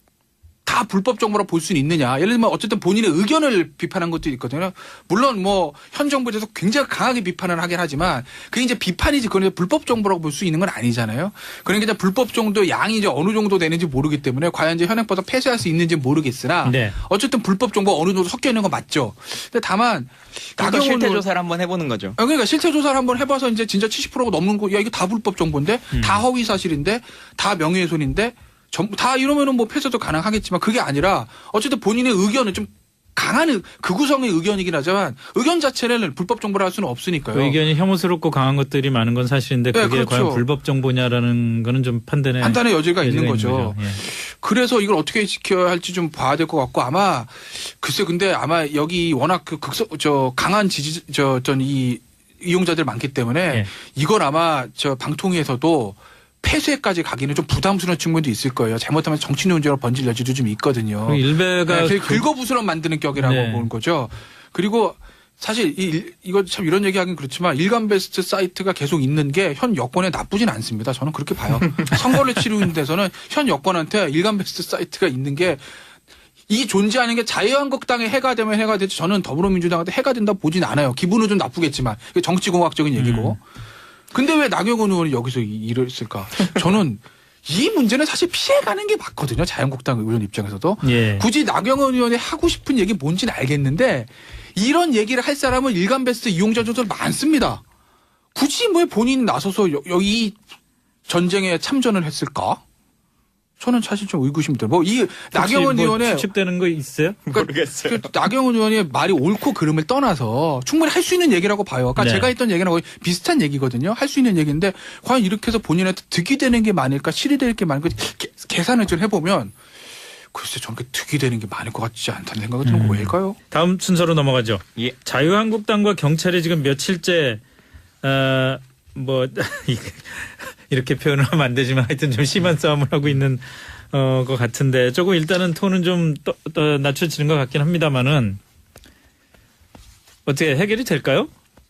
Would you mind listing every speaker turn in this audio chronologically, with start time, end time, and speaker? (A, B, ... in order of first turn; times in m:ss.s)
0:00.7-0:21.2 A
0:16.6-0:17.0 B
0:20.6-0:22.2 C
0:22.2-0:37.6 A
0:25.9-0:26.2 B
0:37.3-0:44.0 B
0:39.7-0:40.4 A
0:42.4-1:15.6 A
1:01.0-1:02.3 B
1:03.2-1:03.7 B
1:16.5-1:23.4 A
1:23.0-1:23.4 B
1:24.1-1:37.6 A
1:30.8-1:31.3 B
1:38.4-1:40.4 A
1:41.1-1:42.6 A
1:43.6-1:46.3 A
1:45.3-1:47.2 B
1:47.3-1:48.1 C
1:47.3-1:59.5 A
1:52.0-1:52.3 B
2:00.3-2:03.4 A
2:02.6-2:07.4 B
2:08.0-2:18.4 B
2:20.3-2:21.3 B